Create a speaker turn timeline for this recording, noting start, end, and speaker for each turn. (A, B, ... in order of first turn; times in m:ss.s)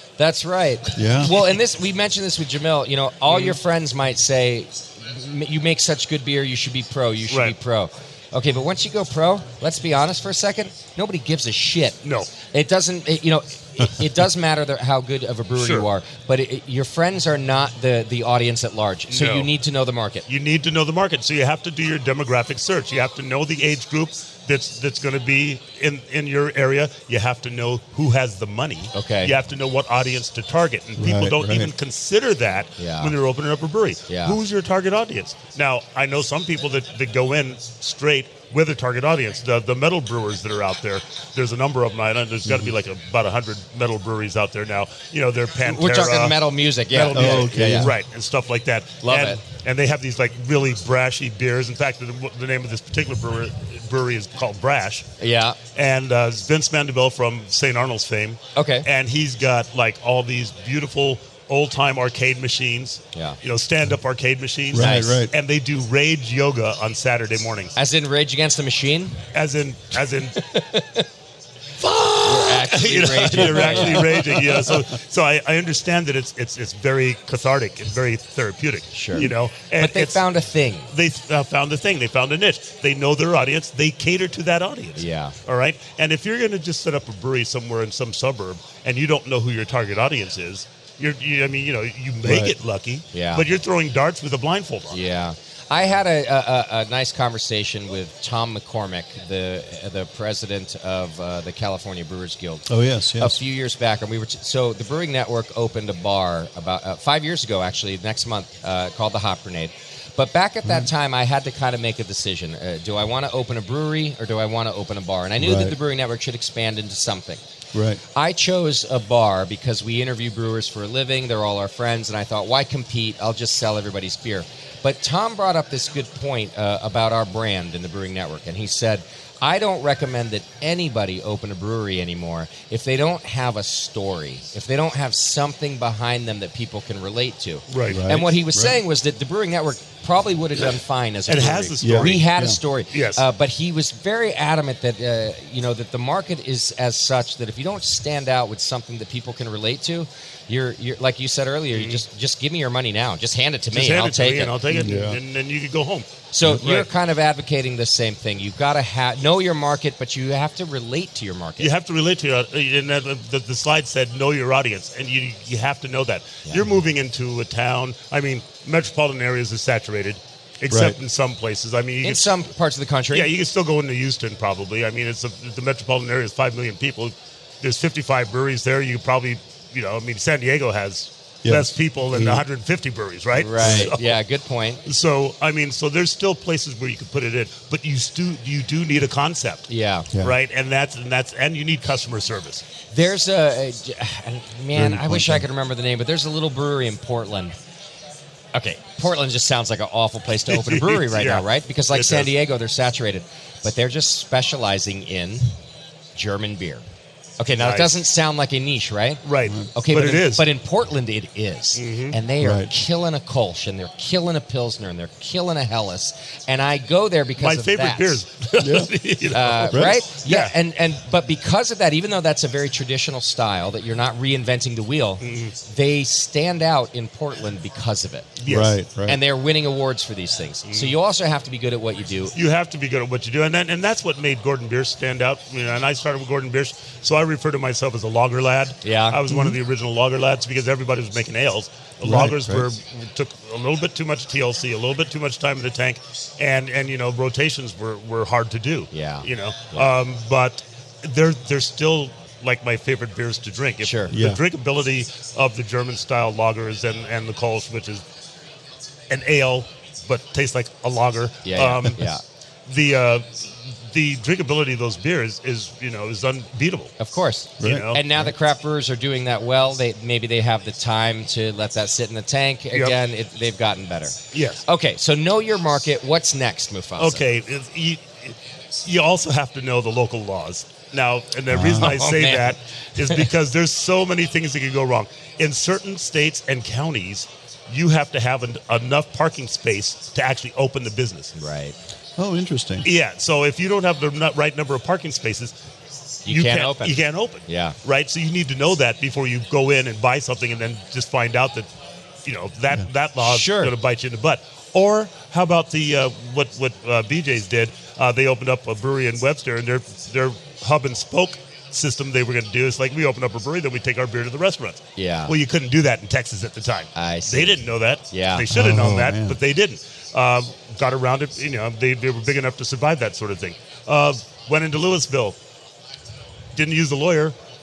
0:00.2-0:20.2 A
0:01.0-0:01.3 B
0:01.2-0:01.5 C
0:03.3-0:03.6 C
0:07.3-0:07.5 C
0:12.0-0:12.3 C
0:15.6-0:15.8 C
0:19.1-0:19.5 C
0:20.3-0:46.4 C
0:28.9-0:29.3 A
0:31.0-0:31.7 B
0:32.8-0:33.1 A
0:34.1-0:34.4 A
0:42.5-0:42.7 B
0:45.6-0:47.9 A
0:46.9-0:55.1 C
0:47.1-0:47.9 B
0:49.0-0:49.4 A
0:55.2-0:55.6 A
0:55.7-1:07.7 C
0:58.5-0:58.9 A
1:03.1-1:03.4 A
1:04.7-1:05.3 B
1:04.8-1:05.2 A
1:07.8-1:09.2 A
1:09.3-1:10.4 C
1:10.4-1:11.1 A
1:11.8-1:20.2 C
1:12.2-1:14.4 A
1:14.5-1:14.8 B
1:18.9-1:20.9 A
1:20.9-1:35.0 C
1:25.0-1:25.4 A
1:32.2-1:32.5 B
1:33.1-1:33.5 A
1:34.9-1:42.6 A
1:42.7-1:43.4 B
1:43.2-1:57.4 A
1:50.6-1:50.9 B
1:55.4-1:55.8 B
1:57.7-1:58.0 B
1:58.1-2:34.6 A
2:17.7-2:18.1 C
2:17.9-2:18.8 B
2:21.3-2:22.3 C
2:21.8-2:22.6 B
2:22.9-2:23.2 C
2:31.7-2:32.0 C
2:33.7-2:36.9 C
2:34.7-2:35.2 B
2:36.3-2:41.7 A
2:41.6-2:52.3 C
2:50.7-2:51.0 B
2:52.0-2:53.3 A
2:53.1-3:04.2 C
3:01.4-3:02.4 B
3:03.4-3:04.8 A
3:03.6-3:03.9 B
3:04.8-3:12.6 C
3:09.7-3:10.1 A
3:12.9-3:17.5 A
3:14.7-3:15.4 B
3:18.5-3:25.5 A
3:20.4-3:22.3 C
3:26.1-3:26.8 A
3:27.4-3:29.2 A
3:27.6-3:27.9 C
3:29.2-3:30.4 C
3:29.7-3:38.2 A
3:31.8-3:32.2 C
3:32.4-3:32.7 B
3:37.4-3:40.5 C
3:38.6-3:38.9 B
3:39.3-3:48.4 A
3:39.7-3:40.0 B
3:45.2-3:45.5 C
3:48.4-3:48.8 C
3:48.4-3:49.2 B
3:49.0-3:52.3 A
3:50.6-3:50.9 C
3:52.3-4:18.0 C
3:58.8-3:59.3 A
3:59.3-3:59.6 B
4:02.0-4:02.7 B
4:08.9-4:09.9 A
4:13.8-4:14.1 A
4:14.1-4:14.4 B
4:19.1-4:22.0 C
4:21.4-4:22.2 A
4:22.7-4:27.0 C
4:27.0-4:37.2 A
4:27.6-4:28.0 C
4:27.6-4:28.3 B
4:34.3-4:34.6 C
4:37.0-4:51.3 C
4:41.5-4:42.0 B
4:41.8-4:43.2 A
4:51.4-4:51.8 A
4:52.2-4:52.9 B
4:52.8-4:55.5 C
4:56.2-4:57.8 A
4:56.3-5:01.7 C
5:02.2-5:25.4 C
5:03.2-5:03.7 A
5:15.0-5:15.3 A
5:16.9-5:17.6 A
5:18.1-5:18.5 A
5:18.5-5:19.4 B
5:26.5-5:27.4 C